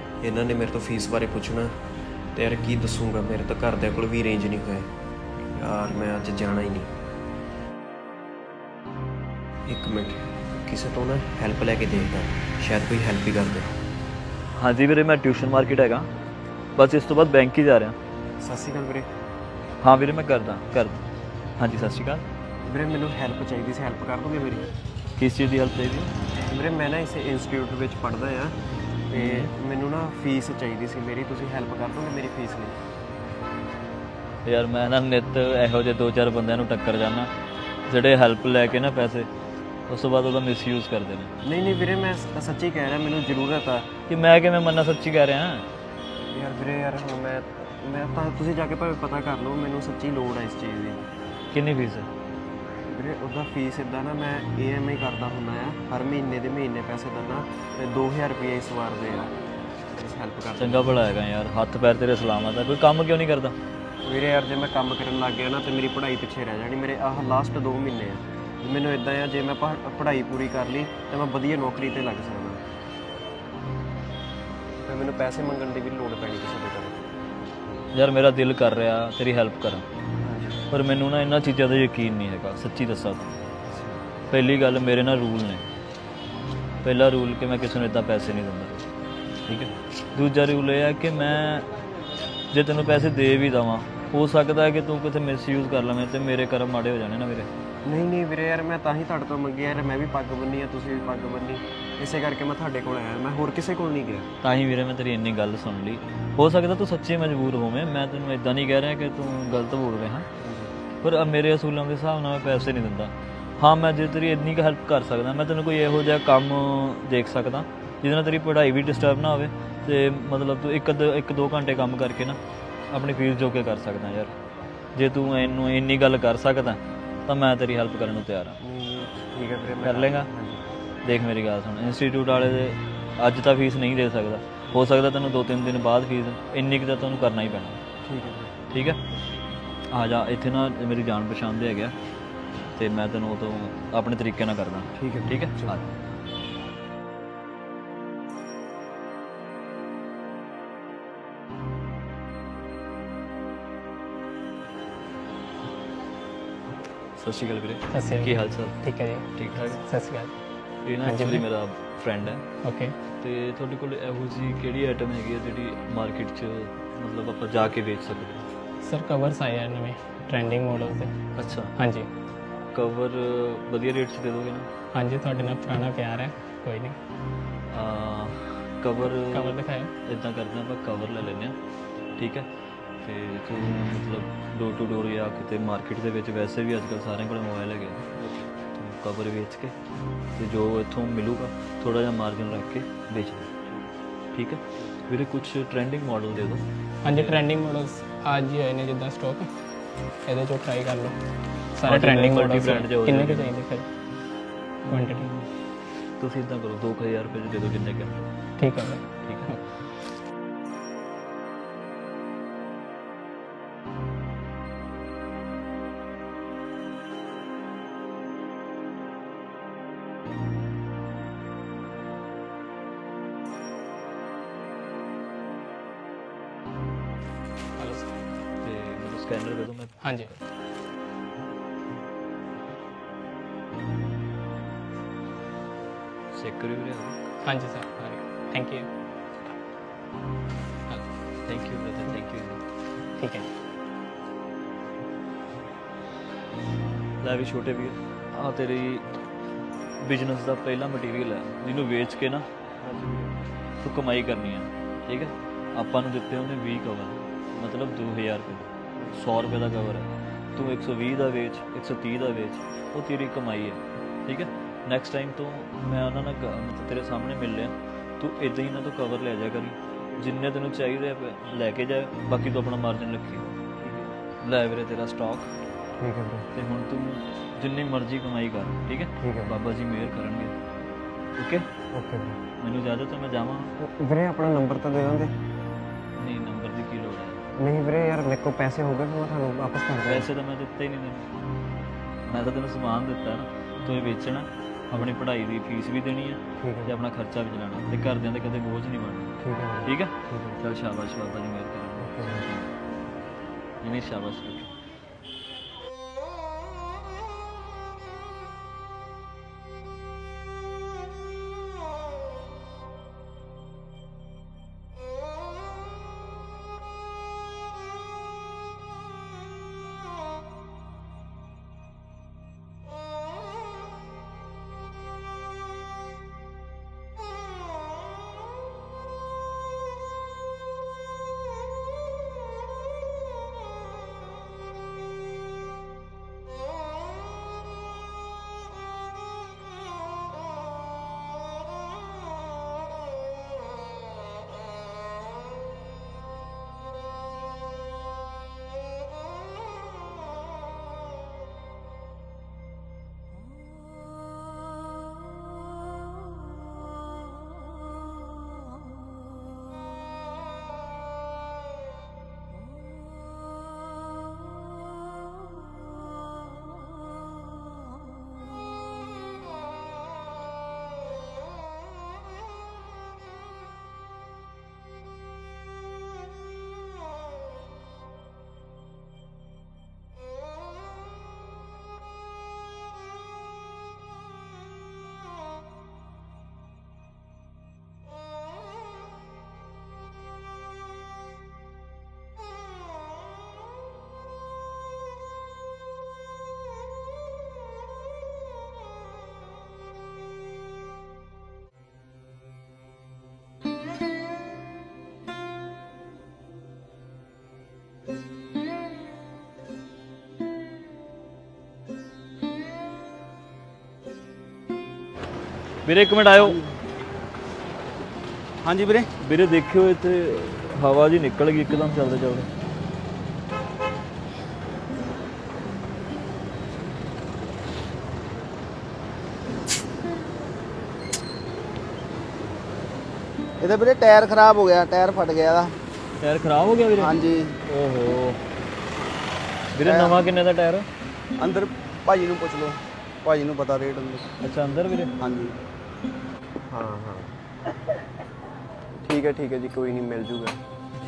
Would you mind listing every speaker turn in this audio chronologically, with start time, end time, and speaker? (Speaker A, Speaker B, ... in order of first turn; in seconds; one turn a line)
Speaker A: 0.2-1.7
Speaker A: 2.3-4.9
Speaker A: 5.5-6.9
Speaker A: 9.7-13.7
Speaker B: 14.6-16.1
Speaker B: 16.8-17.9
Speaker A: 18.4-19.1
Speaker B: 19.8-21.0
Speaker B: 21.6-22.2
Speaker A: 22.6-24.6
Speaker B: 25.1-26.1
Speaker A: 26.5-28.6
Speaker A: 29.1-32.8
Speaker B: 29.1-29.5
Speaker B: 34.5-37.3
Speaker B: 37.9-39.3
Speaker B: 39.9-41.3
Speaker A: 41.4-43.9
Speaker B: 44.1-45.7
Speaker A: 46.3-51.0
Speaker B: 51.5-52.1
Speaker A: 52.9-59.3
Speaker A: 60.0-61.0
Speaker B: 60.5-63.5
Speaker A: 64.0-72.6
Speaker A: 74.8-77.0
Speaker B: 77.9-79.8
Speaker A: 80.2-80.6
Speaker B: 80.7-83.4
Speaker A: 83.7-84.0
Speaker B: 84.3-85.7
Speaker B: 86.8-88.9
Speaker B: 89.5-91.7
Speaker B: 92.5-97.5
Speaker A: 97.8-104.3
Speaker B: 104.4-110.2
Speaker A: 110.4-110.7
Speaker B: 111.0-124.3
Speaker B: 124.9-128.6
Speaker A: 128.6-130.6
Speaker B: 129.8-130.3
Speaker B: 131.0-137.8
Speaker A: 138.0-138.5
Speaker B: 138.7-139.0
Speaker B: 139.9-141.9
Speaker B: 142.7-145.8
Speaker A: 145.0-145.8
Speaker B: 157.2-159.8
Speaker C: 157.9-160.3
Speaker B: 160.8-162.4
Speaker C: 161.0-161.4
Speaker C: 162.6-163.0
Speaker B: 163.2-168.5
Speaker C: 168.8-171.2
Speaker B: 171.3-171.7
Speaker C: 171.8-172.1
Speaker B: 172.7-174.7
Speaker C: 174.9-177.0
Speaker B: 177.7-181.6
Speaker C: 179.2-179.9
Speaker B: 182.2-182.5
Speaker B: 183.0-189.8
Speaker B: 190.3-193.6
Speaker B: 194.3-197.4
Speaker C: 197.0-199.5
Speaker C: 200.2-201.2
Speaker C: 201.8-203.9
Speaker B: 201.8-203.5
Speaker C: 204.8-205.3
Speaker B: 204.8-205.1
Speaker B: 206.2-208.2
Speaker C: 208.6-209.6
Speaker B: 209.2-209.6
Speaker C: 227.8-228.1
Speaker B: 228.6-230.1
Speaker C: 230.0-230.3
Speaker B: 236.3-237.3
Speaker C: 237.4-238.9
Speaker B: 241.4-242.6
Speaker C: 243.2-243.5
Speaker B: 247.2-249.1
Speaker B: 250.0-252.5
Speaker A: 252.8-253.3
Speaker B: 253.8-273.5
Speaker B: 274.4-275.5
Speaker A: 276.0-276.5
Speaker B: 276.5-280.5
Speaker A: 279.2-279.5
Speaker B: 281.4-281.7
Speaker A: 281.9-282.4
Speaker B: 282.6-283.7
Speaker A: 283.8-285.3
Speaker B: 286.2-287.5
Speaker A: 287.6-290.3
Speaker B: 290.0-291.3
Speaker B: 292.3-302.7
Speaker A: 296.6-296.9
Speaker A: 299.4-300.6
Speaker A: 302.0-302.4
Speaker B: 303.8-304.7
Speaker B: 415.9-416.6
Speaker D: 418.6-419.1
Speaker B: 419.2-422.5
Speaker D: 433.6-435.7
Speaker B: 436.2-438.4
Speaker D: 437.0-437.5
Speaker B: 439.7-440.9
Speaker D: 439.9-440.2
Speaker D: 441.4-444.2
Speaker B: 444.4-445.1
Speaker D: 445.2-445.5
Speaker A: 446.7-447.3
Speaker A: 448.9-450.6